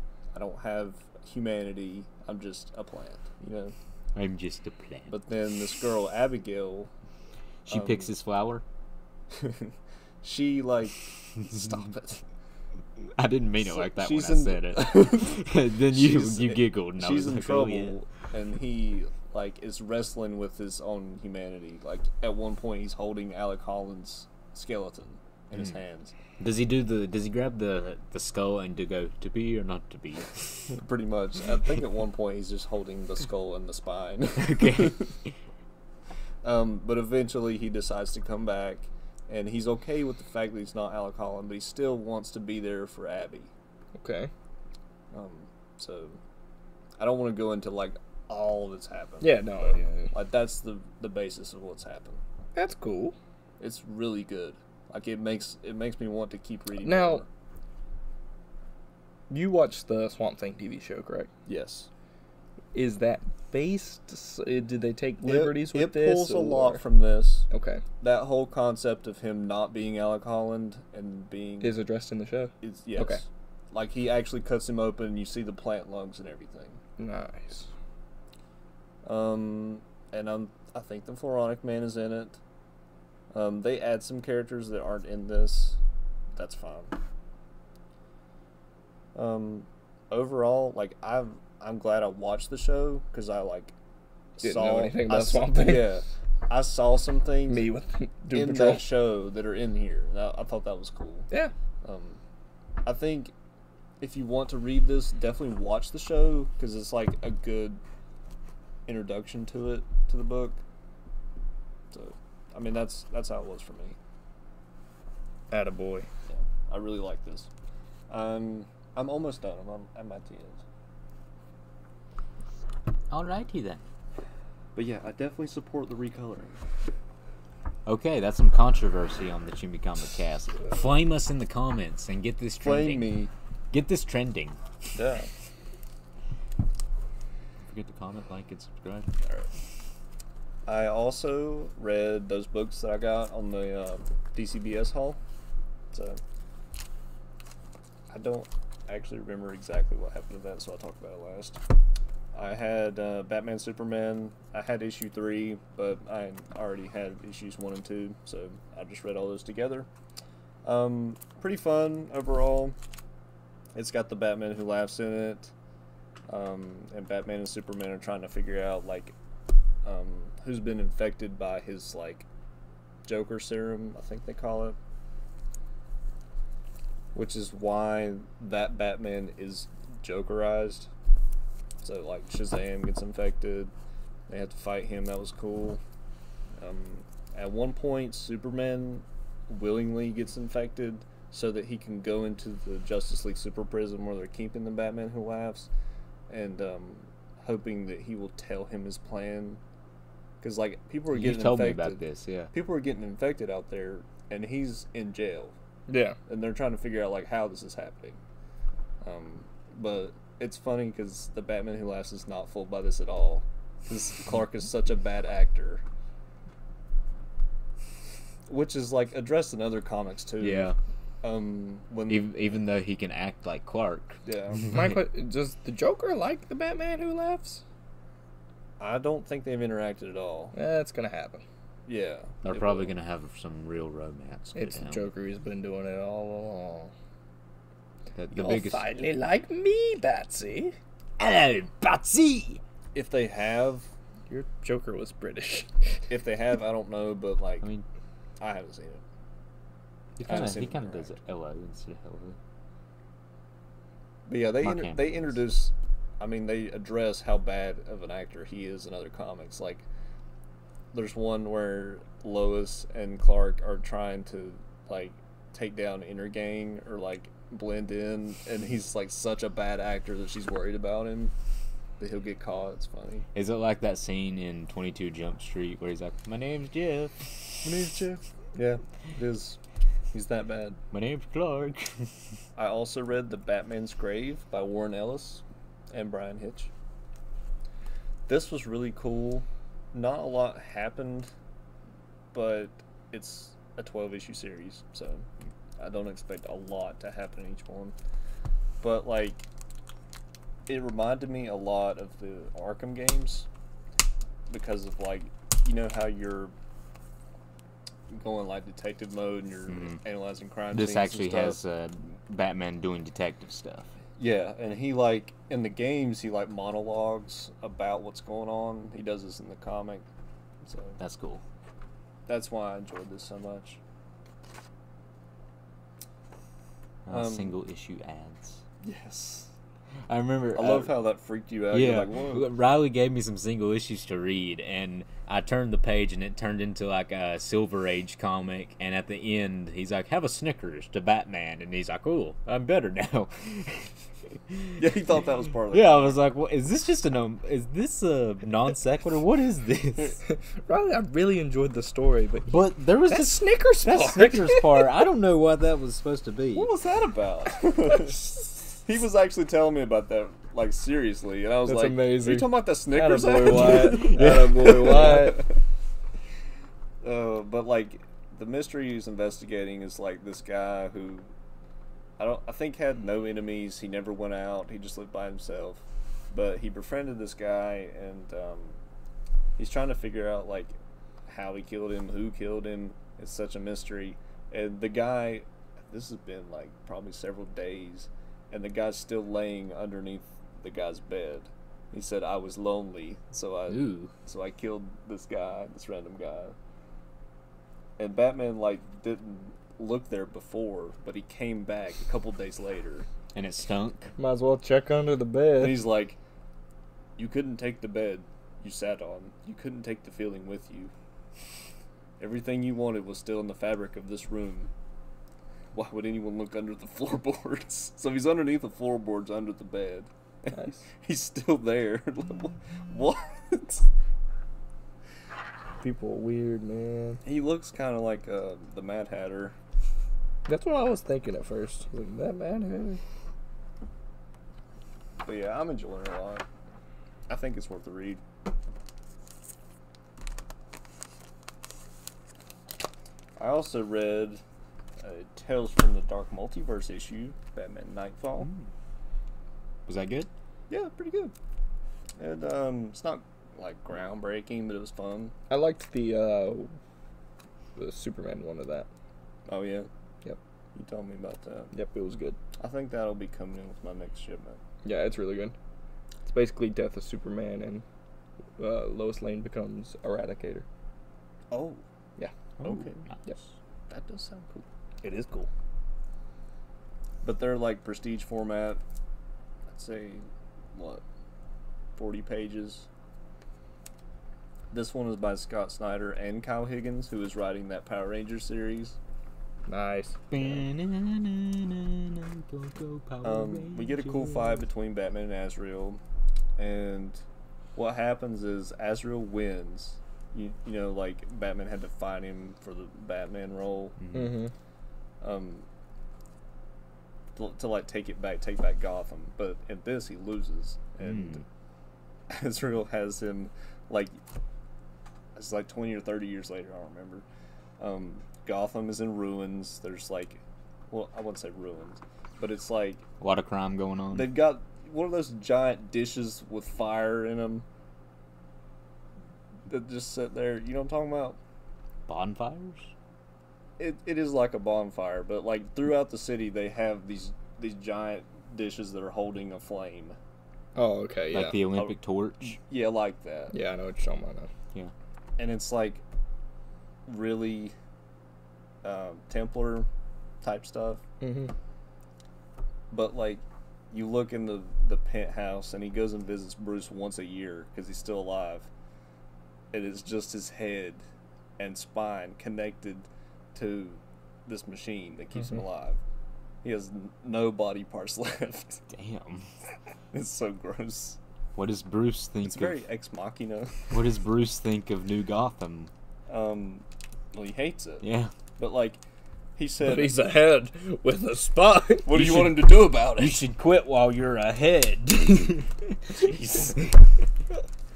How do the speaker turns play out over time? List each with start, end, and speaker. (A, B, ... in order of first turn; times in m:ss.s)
0:00.3-0:03.7 A
0:04.1-0:05.1 B
0:05.1-0:06.9 A
0:07.7-0:08.6 B
0:07.7-0:08.1 A
0:09.3-0:12.2 A
0:13.1-0:18.0 B
0:13.6-0:26.1 A
0:26.4-0:30.7 B
0:30.7-0:35.1 A
0:34.4-0:35.3 B
0:36.4-0:43.5 A
0:44.0-0:44.3 C
0:45.1-0:46.2 A
0:47.0-0:52.2 A
0:49.2-0:50.1 C
0:52.5-0:53.2 C
0:53.6-0:57.3 A
0:56.8-0:57.2 C
0:59.3-1:01.3 C
1:01.4-1:01.9 A
1:02.7-1:06.8 C
1:05.2-1:07.5 A
1:07.5-1:07.8 C
1:08.0-1:11.8 A
1:11.6-1:13.2 C
1:12.6-1:16.8 A
1:17.0-1:17.7 C
1:19.0-1:22.4 A
1:23.3-1:25.8 A
1:26.3-1:26.9 A
1:29.1-1:33.7 A
1:34.4-1:37.7 A
1:34.4-1:35.9 C
1:37.5-1:38.9 C
1:38.3-1:41.3 A
1:41.8-1:42.2 A
1:42.8-1:43.3 A
1:44.0-1:47.8 A
1:48.9-1:50.6 A
1:51.9-1:54.0 A
1:55.5-1:56.1 C
1:56.3-1:57.5 A
1:58.1-2:00.6 A
2:03.1-2:03.8 B
2:04.8-2:06.6 A
2:07.8-2:13.1 B
2:12.6-2:13.3 A
2:13.7-2:14.6 B
2:14.9-2:15.3 A
2:17.6-2:19.1 B
2:19.2-2:19.5 A
2:20.7-2:25.2 A
2:25.9-2:26.2 A
2:28.1-2:31.6 A
2:32.3-2:39.9 A
2:40.6-2:42.8 A
2:43.7-2:45.5 A
2:46.3-2:49.1 A
2:49.8-2:52.2 A
2:53.0-2:54.8 A
2:57.1-3:00.9 A
3:01.8-3:03.7 A
3:04.3-3:05.8 A
3:06.6-3:15.7 A
3:16.3-3:19.6 A
3:20.4-3:25.5 A
3:21.1-3:22.5 B
3:25.9-3:26.2 C
3:26.3-3:28.2 A
3:29.0-3:35.8 A
3:38.5-3:42.3 A
3:40.4-3:40.8 B
3:42.1-3:45.0 B
3:44.2-3:44.6 A
3:44.7-3:47.6 C
3:48.8-3:50.5 A
3:50.5-3:51.4 C
3:51.9-3:52.9 A
3:52.4-3:55.1 B
3:54.5-3:56.9 C
3:58.1-3:58.8 B
3:58.3-4:00.7 C
4:01.2-4:02.6 B
4:02.9-4:03.9 A
4:04.3-4:05.7 C
4:06.1-4:07.7 A
4:08.4-4:09.0 A
4:10.2-4:12.4 B
4:10.2-4:11.1 A
4:14.3-4:19.8 A
4:14.6-4:15.4 B
4:20.9-4:31.3 A
4:32.0-4:33.2 A
4:33.3-4:37.1 B
4:37.6-4:39.6 A
4:40.1-4:40.8 A
4:40.9-4:42.1 B
4:42.6-4:46.7 A
4:48.3-4:51.3 A
4:52.3-4:55.2 A
4:55.8-4:57.9 A
4:58.8-4:59.4 A
5:00.7-5:03.5 A
5:04.5-5:06.5 A
5:08.1-5:11.6 A
5:09.7-5:10.0 B
5:10.7-5:13.9 B
5:14.2-5:20.1 A
5:20.6-5:21.0 A
5:21.0-5:21.4 B
5:22.3-5:23.8 A
5:27.0-5:28.6 B
5:27.1-5:27.6 A
5:28.8-5:29.5 A
5:30.1-5:30.9 B
5:30.5-5:32.5 A
5:31.7-5:44.8 B
5:44.8-5:46.2 A
5:45.7-5:50.2 B
5:50.5-5:54.9 C
5:52.5-5:56.7 B
5:56.5-6:05.6 A
6:01.6-6:05.4 C
6:07.0-6:11.3 A
6:12.2-6:18.8 A
6:19.6-6:20.7 A
6:21.3-6:36.5 A
6:33.7-6:34.1 B
6:38.0-6:43.1 A
6:43.3-6:44.1 B
6:44.2-6:45.8 C
6:45.6-6:46.2 A
6:47.2-6:50.9 A
6:52.2-6:54.7 A
6:55.7-7:03.9 A
7:00.5-7:00.8 C
7:05.8-7:07.2 C
7:07.2-7:09.6 A
7:10.4-7:13.0 C
7:15.2-7:16.4 A
7:17.3-7:18.2 A
7:23.4-7:24.4 A
7:25.0-7:28.5 A
7:29.9-7:30.3 B
7:30.7-7:31.3 A
7:32.2-7:35.3 A
7:35.5-7:36.7 C
7:37.8-7:38.9 C
7:39.5-7:39.9 A
7:40.7-7:41.7 A
7:41.7-7:42.4 C
7:42.6-7:44.6 A
7:44.8-7:45.5 C
7:46.2-7:47.8 C
7:48.6-7:50.6 C
7:51.5-7:51.8 A
7:52.6-7:53.2 B
7:52.6-7:53.0 A
7:53.9-7:54.6 A
7:55.0-7:55.5 C
7:57.2-7:58.8 A
7:59.7-8:01.0 A
8:02.0-8:02.8 A
8:04.7-8:09.0 A
8:09.7-8:10.2 C
8:10.3-8:14.6 B
8:10.4-8:10.6 A
8:13.2-8:16.0 A
8:16.6-8:17.2 A
8:17.8-8:24.0 A
8:24.0-8:24.3 B
8:24.1-8:24.5 C
8:25.2-8:25.6 A
8:27.4-8:31.4 A
8:31.0-8:31.4 B
8:32.3-8:34.2 A
8:35.4-8:37.2 A
8:37.8-8:43.0 A
8:43.2-8:44.3 B
8:44.1-8:47.6 A
8:49.7-8:51.4 A
8:52.1-8:52.9 B
8:53.8-9:00.2 A
9:00.7-9:01.6 C
9:01.3-9:02.6 B
9:01.7-9:03.5 A
9:03.5-9:04.5 C
9:05.4-9:06.0 A
9:07.1-9:07.7 A
9:08.8-9:09.9 A
9:10.4-9:11.0 A
9:11.2-9:11.5 C
9:12.9-9:18.7 A
9:19.7-9:21.0 A
9:21.6-9:26.0 A
9:26.6-9:28.8 A
9:28.9-9:29.5 B
9:30.1-9:31.2 A
9:31.5-9:32.8 B
9:32.4-9:33.9 A
9:33.9-9:35.9 B
9:36.3-9:38.0 A
9:38.0-9:38.3 B
9:38.6-9:39.0 A
9:39.6-9:40.2 A
9:39.8-9:42.1 C
9:42.0-9:43.4 A
9:42.1-9:46.9 B
9:46.3-9:46.8 A